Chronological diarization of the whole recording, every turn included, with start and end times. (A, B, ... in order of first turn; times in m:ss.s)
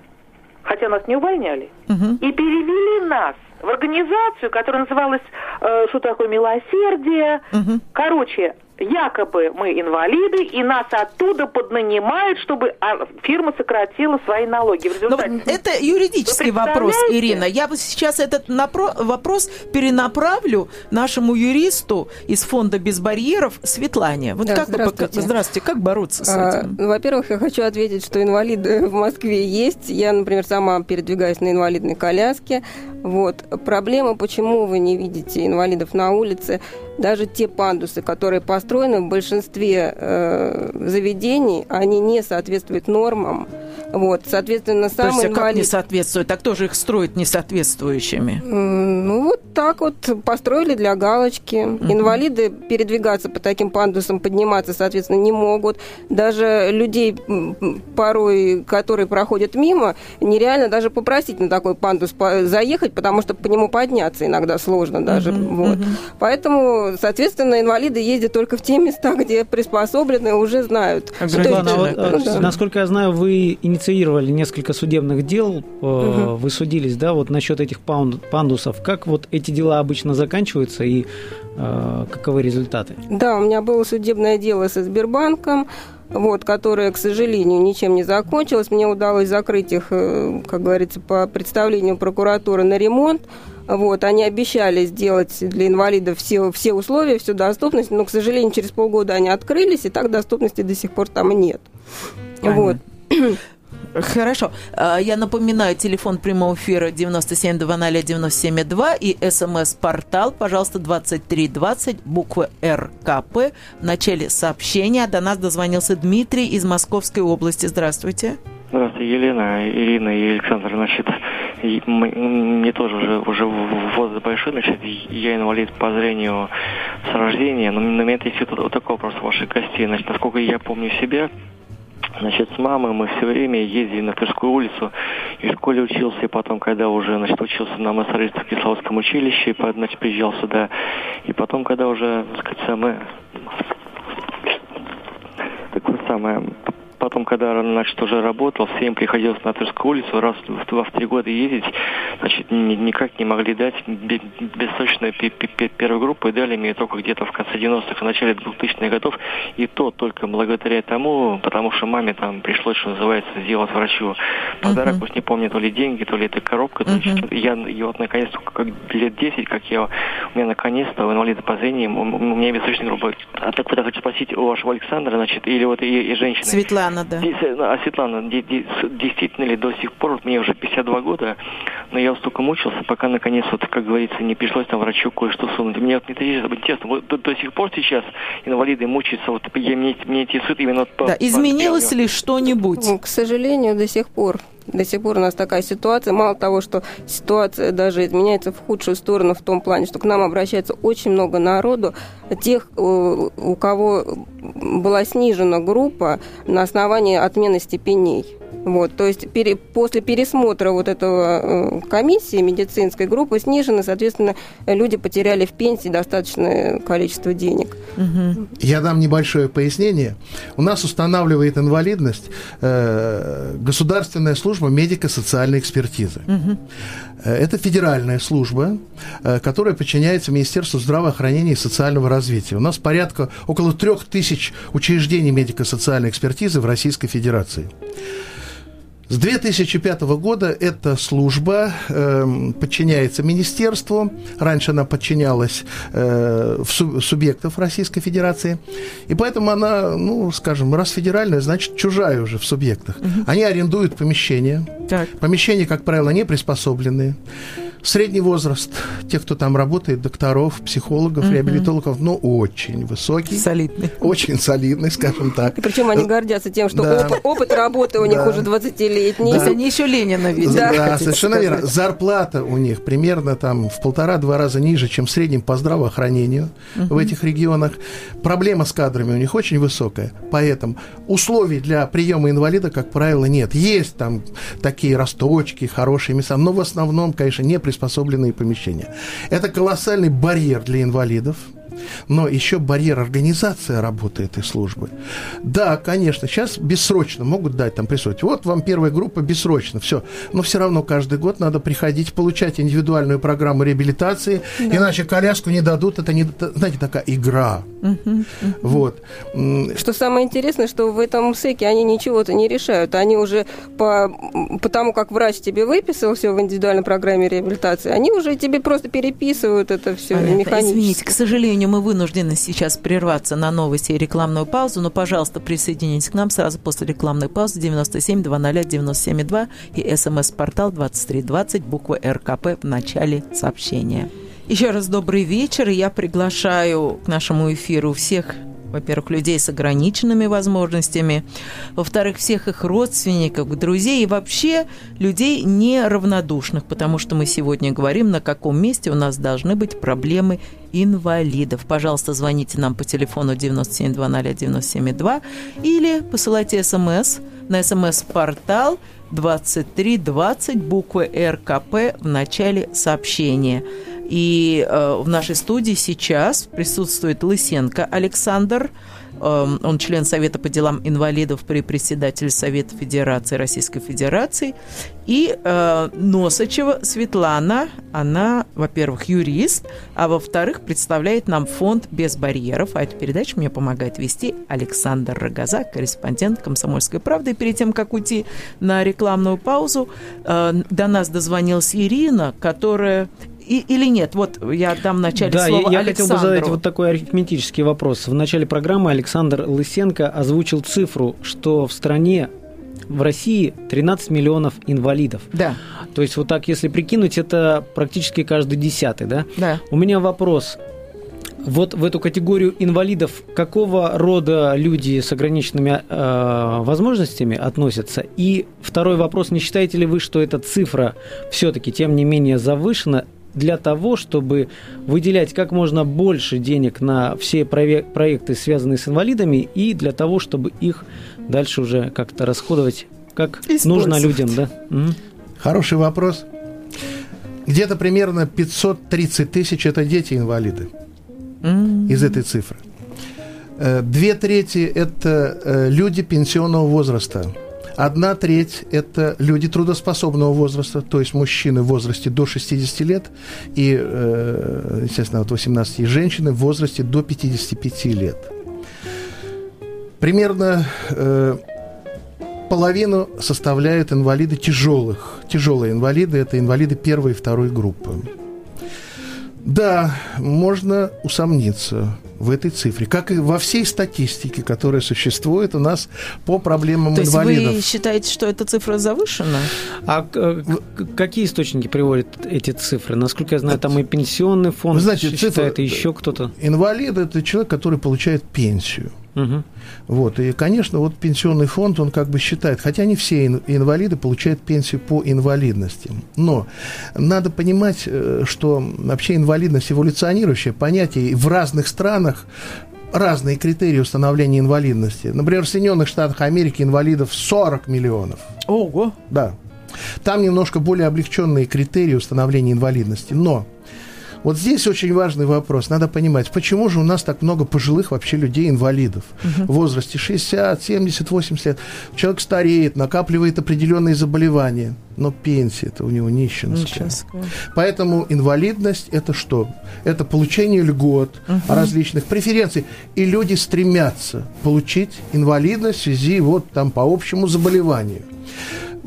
0:00.6-0:15.5 A
0:01.9-0:02.2 B
0:07.5-0:07.8 B
0:15.1-0:26.8 B
0:16.3-0:17.4 A
0:24.4-0:25.3 C
0:26.2-0:45.7 C
0:45.0-0:48.4 B
0:48.4-1:12.5 C
0:51.8-0:52.2 B
1:05.1-1:06.0 B
1:11.2-1:12.6 B
1:11.3-1:23.0 D
1:16.0-1:16.3 C
1:23.1-1:41.7 C
1:42.4-1:43.4 C
1:42.4-1:42.8 B
1:44.0-1:58.4 B
1:58.7-2:06.5 E
2:07.0-2:11.3 E
2:12.2-2:20.7 E
2:21.2-2:23.1 E
2:25.7-2:56.6 E
2:44.6-2:45.0 B
2:46.9-2:47.2 B
2:56.4-2:57.2 B
2:57.2-3:01.4 E
3:01.9-3:12.0 E
3:11.0-3:12.9 B
3:12.8-3:37.8 C
3:38.0-3:38.4 B
3:38.6-3:46.3 F
3:46.3-3:46.6 B
3:47.2-3:57.7 F
3:59.1-4:17.2 F
4:17.8-4:26.1 F
4:21.2-4:21.7 B
4:23.3-4:24.0 B
4:25.5-4:29.6 C
4:26.7-4:27.2 F
4:28.0-4:28.5 F
4:29.2-4:29.6 F
4:29.2-4:31.5 B
4:30.4-4:51.5 F
4:30.4-4:31.4 C
4:36.8-4:37.1 B
4:52.1-5:07.7 F
5:04.6-5:04.9 C
5:07.8-5:08.7 B
5:08.6-5:09.8 F
5:09.8-5:21.1 C
5:20.1-5:41.2 B
5:41.8-6:14.6 B
6:15.1-6:36.6 B
6:35.1-6:42.3 D
6:42.9-6:45.3 D
6:45.3-6:45.6 B
6:45.9-6:50.6 D
6:49.4-6:49.6 B
6:51.4-7:15.0 D
7:13.5-7:14.3 B
7:15.4-7:16.3 F
7:17.5-7:20.7 F
7:21.4-7:22.2 B
7:21.9-7:22.6 F
7:23.6-7:38.3 F
7:40.0-7:41.4 F
7:42.5-7:48.1 F
7:49.4-7:57.6 F
7:56.9-7:59.5 B
7:59.9-8:06.3 D
8:04.7-8:09.0 F
8:09.2-8:09.4 D
8:09.9-8:22.3 F
8:22.9-8:28.3 F
8:28.5-8:29.0 B
8:29.1-8:29.4 F
8:30.0-8:33.5 F
8:34.2-8:58.1 F
8:46.5-8:47.3 B
8:51.3-8:51.7 B